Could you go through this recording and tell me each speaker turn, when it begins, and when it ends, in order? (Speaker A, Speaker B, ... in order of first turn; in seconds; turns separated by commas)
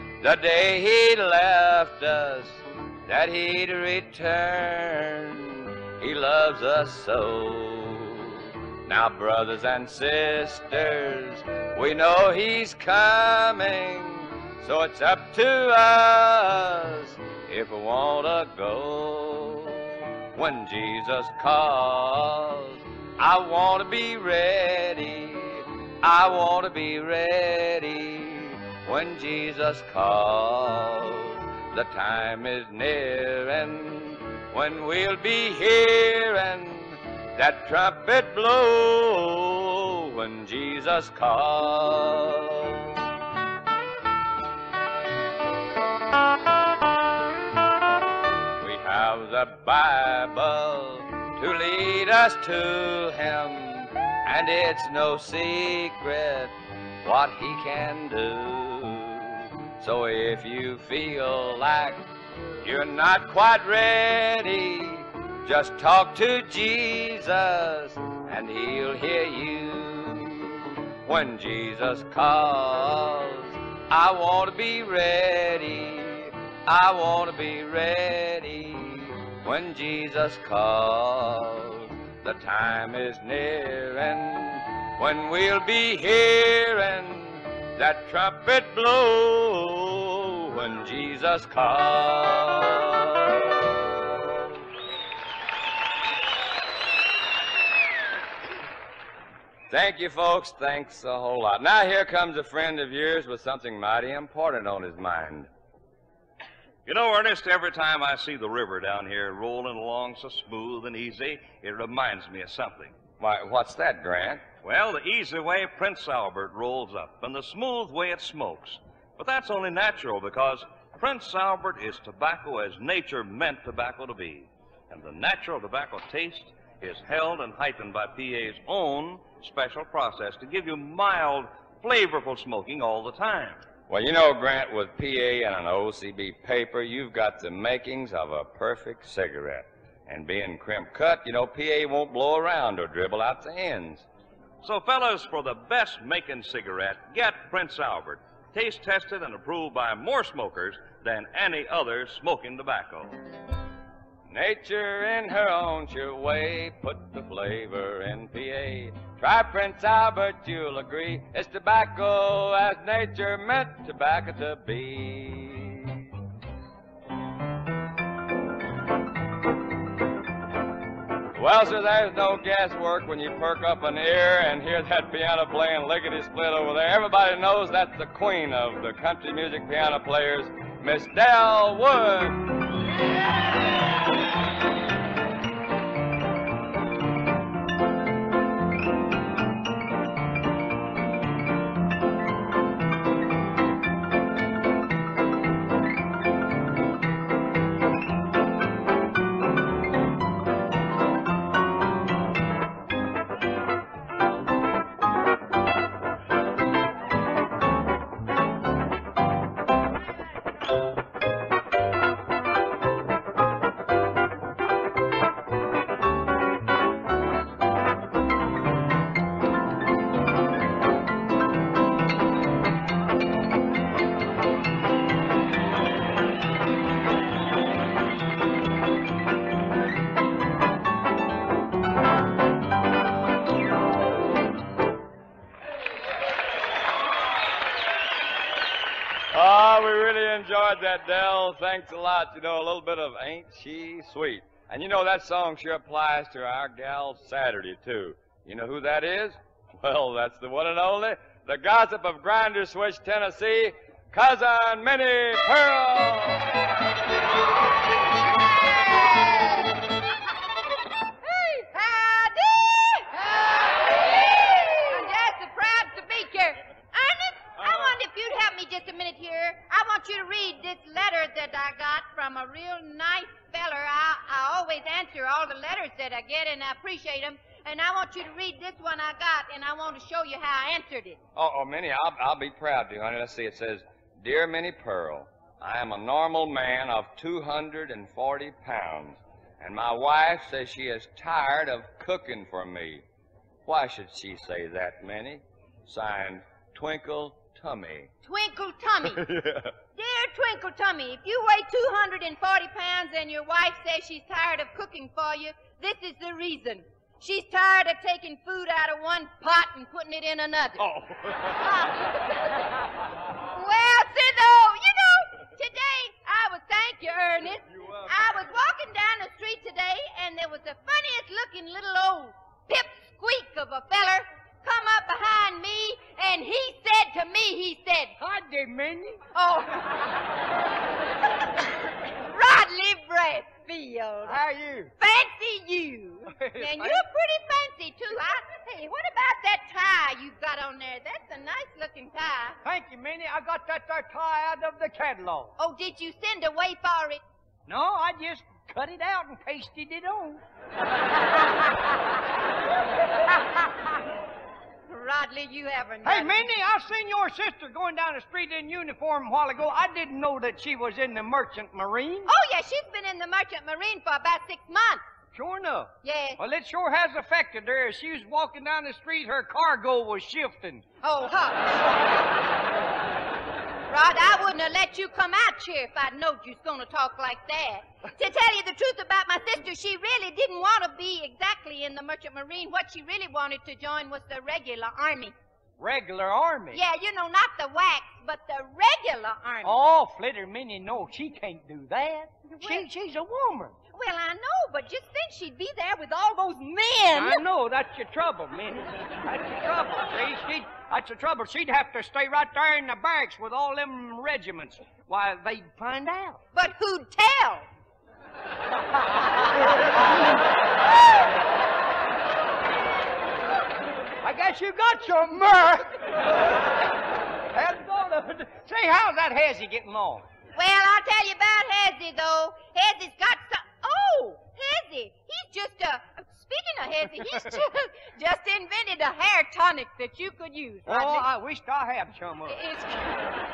Speaker A: 0.2-43.0, Speaker A: 48.6-62.0, Speaker A: 62.6-94.4, Speaker A: 99.7-105.5, Speaker B: 106.8-112.9, Speaker A: 113.2-114.4, Speaker B: 114.6-133.6, Speaker A: 133.9-144.1, Speaker B: 144.6-153.2, Speaker A: 154.3-166.1, Speaker A: 171.3-182.5, Speaker A: 239.3-256.5, Speaker C: 261.2-281.2, Speaker A: 281.4-293.0, Speaker A: 293.6-298.1, Speaker C: 298.2-299.2, Speaker A: 299.3-299.6, Speaker C: 299.9-310.8, Speaker C: 311.5-312.1, Speaker C: 313.5-328.1, Speaker D: 328.2-329.2, Speaker C: 329.3-330.1, Speaker C: 332.2-334.4, Speaker D: 334.2-334.9, Speaker C: 335.0-342.6, Speaker D: 336.3-337.0, Speaker D: 342.6-345.5, Speaker C: 345.6-347.2, Speaker D: 347.7-350.4, Speaker C: 354.9-356.5, Speaker D: 356.0-362.3, Speaker C: 362.3-365.0, Speaker D: 365.3-370.8, Speaker C: 366.0-366.4, Speaker C: 371.0-371.9, Speaker C: 373.9-385.3, Speaker D: 385.8-386.8, Speaker C: 386.7-389.8, Speaker D: 389.6-393.7, Speaker C: 392.6-392.9, Speaker C: 393.9-397.4, Speaker D: 397.1-406.4, Speaker C: 406.5-407.6, Speaker D: 414.2-416.1, Speaker D: 417.5-420.2, Speaker C: 420.6-431.3, Speaker D: 427.2-427.6, Speaker D: 430.9-432.6, Speaker C: 432.5-433.1